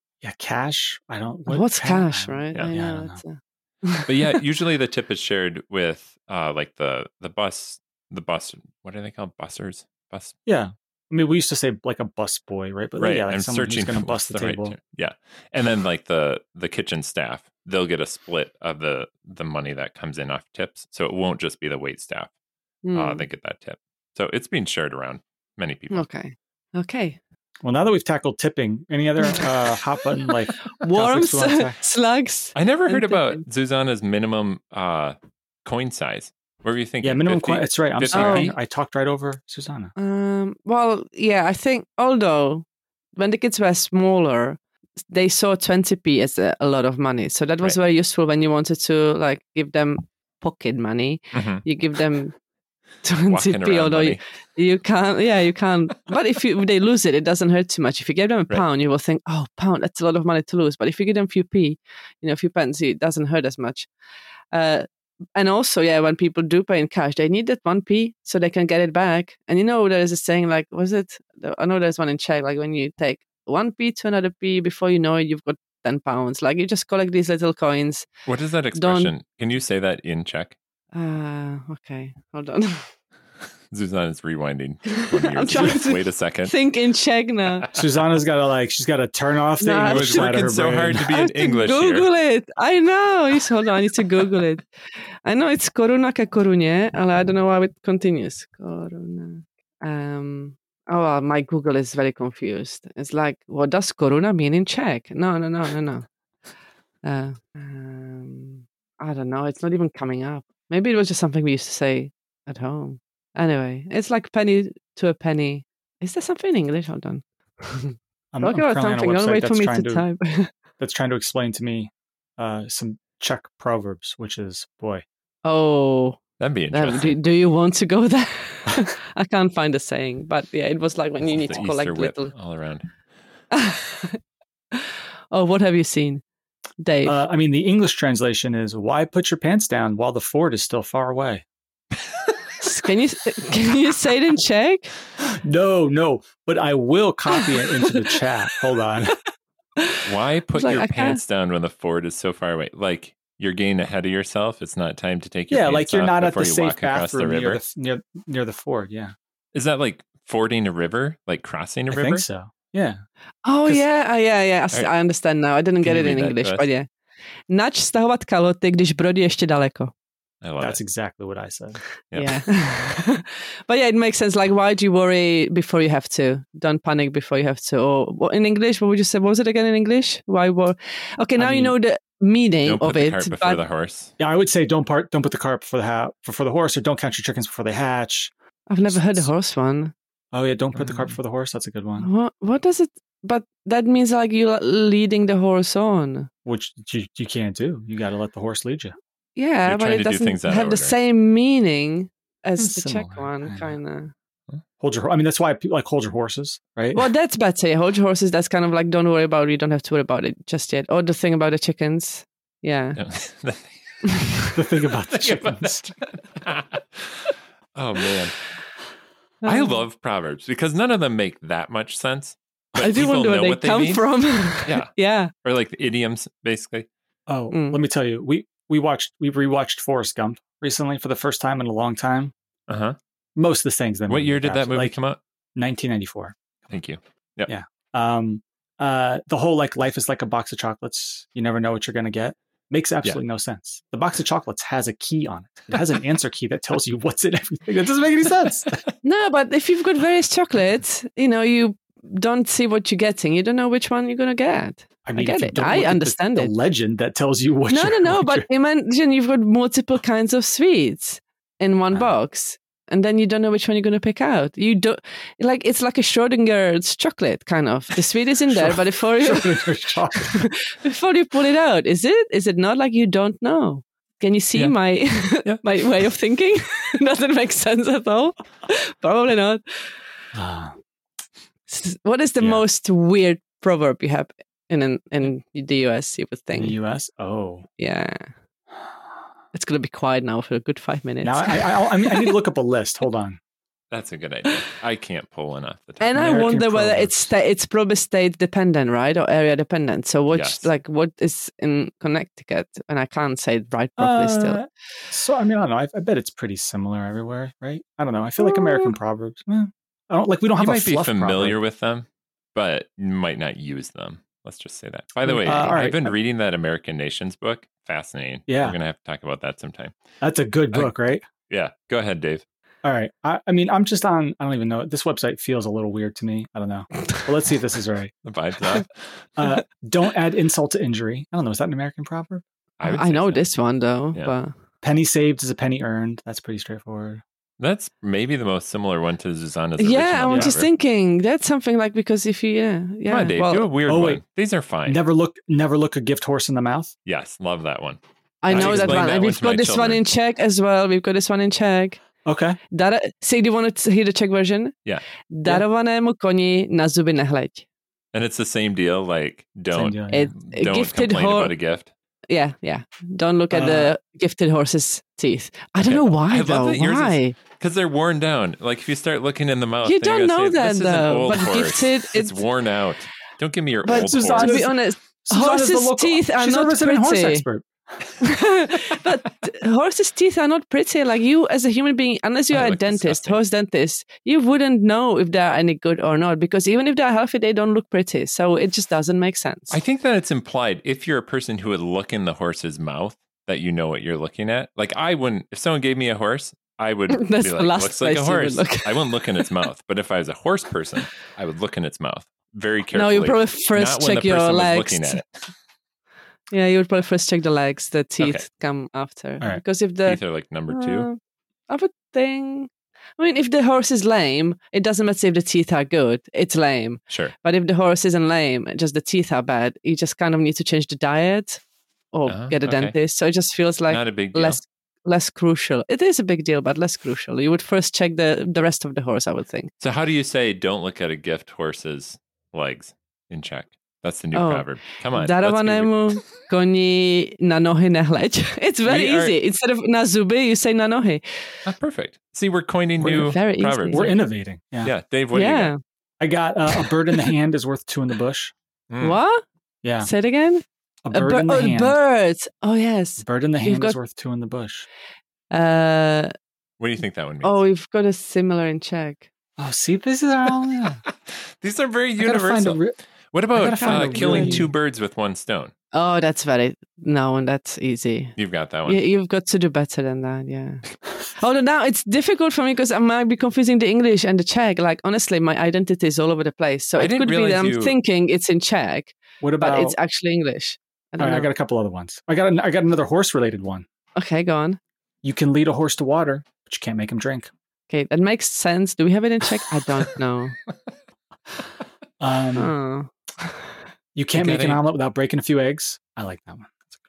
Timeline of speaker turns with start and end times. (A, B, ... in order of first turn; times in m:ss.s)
0:00.2-0:03.2 A
0:01.5-0:04.4 B
0:04.0-0:10.3 C
0:10.4-0:14.8 A
0:13.0-0:22.3 C
0:22.8-0:23.2 B
0:22.9-0:26.0 C
0:25.9-0:27.2 B
0:27.6-0:31.8 A
0:30.7-0:33.4 B
0:32.5-0:38.5 C
0:37.0-0:39.9 A
0:38.1-0:38.5 B
0:40.0-0:42.6 B
0:43.2-0:44.6 B
0:45.1-0:52.3 B
0:51.3-0:51.6 C
0:53.0-1:03.9 B
0:53.2-0:54.2 C
1:04.5-1:18.1 B
1:18.2-1:20.6 C
1:18.7-1:19.1 B
1:20.9-1:22.9 B
1:23.7-1:26.5 C
1:24.9-1:27.7 B
1:27.7-1:31.0 A
1:29.6-1:34.6 B
1:29.8-1:32.1 C
1:35.2-1:46.0 B
1:47.0-2:00.5 B
1:58.3-2:00.0 A
2:00.8-2:05.0 A
2:05.4-2:12.3 B
2:06.4-2:07.2 C
2:11.2-2:12.9 C
2:13.5-2:14.2 B
2:14.7-2:16.2 B
2:16.8-2:17.2 B
2:17.0-2:21.4 A
2:22.6-2:24.9 B
2:25.2-2:29.2 A
2:27.3-2:28.2 B
2:29.8-2:31.2 B
2:30.0-2:37.6 C
2:35.5-2:39.1 A
2:39.5-2:42.2 C
2:41.9-2:43.0 A
2:43.4-2:46.8 B
2:45.8-2:46.6 C
2:47.5-2:49.9 B
2:50.4-2:50.8 C
2:50.6-2:51.8 A
2:52.1-2:52.4 C
2:52.1-3:03.6 B
3:01.4-3:01.7 A
3:02.6-3:04.1 C
3:04.2-3:08.3 A
3:08.7-3:09.9 B
3:08.8-3:09.3 A
3:10.3-3:12.1 A
3:10.8-3:11.1 C
3:12.0-3:16.3 B
3:16.4-3:18.9 A
3:19.4-3:24.1 B
3:19.6-3:21.0 C
3:22.6-3:23.8 A
3:24.8-3:27.1 A
3:26.9-3:33.0 B
3:33.0-3:33.8 C
3:34.1-3:34.4 B
3:34.5-3:35.9 A
3:35.1-3:38.4 C
3:39.4-3:39.8 B
3:39.4-3:44.0 C
3:42.8-3:45.3 B
3:44.6-3:44.9 C
3:45.4-3:46.9 C
3:47.3-3:52.3 A
3:47.5-3:47.8 B
3:52.7-3:53.0 C
3:53.4-3:55.0 A
3:54.1-3:55.2 C
3:55.6-3:56.4 A
3:56.7-3:57.5 C
3:57.5-4:08.8 A
4:09.0-4:16.5 B
4:15.0-4:18.4 A
4:17.7-4:39.6 B
4:28.5-4:30.4 A
4:40.3-4:40.7 A
4:41.7-4:46.8 B
4:46.6-4:47.6 A
4:47.8-4:48.3 B
4:49.5-4:52.3 B
4:51.2-4:53.4 A
4:53.9-4:56.1 C
4:56.0-5:04.6 B
4:56.1-4:57.3 A
5:00.3-5:00.7 C
5:04.0-5:11.6 A
5:10.6-5:19.9 C
5:15.3-5:16.1 A
5:18.5-5:18.8 A
5:20.2-5:21.2 A
5:21.5-5:22.4 C
5:22.8-5:28.1 A
5:28.2-5:29.1 C
5:29.4-5:32.4 A
5:32.8-5:33.4 C
5:32.8-5:34.5 B
5:34.8-5:37.2 A
5:37.6-5:40.7 C
5:39.8-5:43.7 B
5:40.3-5:40.6 A
5:43.1-5:45.0 C
5:43.9-5:44.2 A
5:44.8-5:46.9 A
5:47.0-5:48.0 C
5:48.4-5:52.0 B
5:48.5-5:49.1 A
5:48.5-5:50.0 C
5:52.2-5:52.6 A
5:52.7-5:54.8 B
5:55.3-5:57.6 B
5:58.1-6:01.9 C
5:59.7-6:00.3 A
6:00.1-6:01.5 B
6:02.3-6:07.4 B
6:03.5-6:03.9 A
6:05.8-6:14.6 C
6:09.8-6:12.4 B
6:13.8-6:17.6 A
6:13.8-6:17.4 B
6:18.2-6:29.8 B
6:22.5-6:23.4 C
6:29.7-6:45.4 C
6:37.1-6:39.4 B
6:42.9-6:45.2 B
6:46.5-6:51.2 B
6:48.2-6:48.4 C
6:50.0-6:51.1 C
6:51.7-7:01.6 B
7:02.1-7:09.7 B
7:02.2-7:03.0 C
7:03.9-7:04.6 C
7:09.8-7:16.0 C
7:14.3-7:21.2 B
7:18.8-7:19.3 C
7:21.6-7:24.2 C
7:23.0-7:23.3 A
7:23.0-7:24.1 B
7:23.9-7:24.9 A
7:24.8-7:25.7 C
7:25.3-7:25.8 B
7:26.2-7:28.5 A
7:26.8-7:27.3 B
7:28.9-7:29.2 C
7:29.0-7:29.4 B
7:29.8-7:30.1 A
7:30.0-7:34.0 B
7:31.0-7:32.0 A
7:33.2-7:34.8 A
7:35.5-7:36.3 B
7:36.8-7:37.6 C
7:37.4-7:39.3 B
7:39.6-7:41.0 A
7:40.8-7:42.8 C
7:42.2-7:43.0 A
7:43.3-7:45.7 C
7:43.5-7:44.7 A
7:43.8-7:44.7 B
7:45.9-8:01.5 B
7:48.4-7:49.0 C
7:57.0-7:57.9 C
7:59.4-8:00.0 A
8:01.2-8:03.8 A
8:04.2-8:04.8 B
8:05.2-8:07.5 A
8:07.9-8:10.6 B
8:12.2-8:12.7 A
8:12.6-8:13.6 B
8:14.1-8:16.8 A
8:14.3-8:14.8 C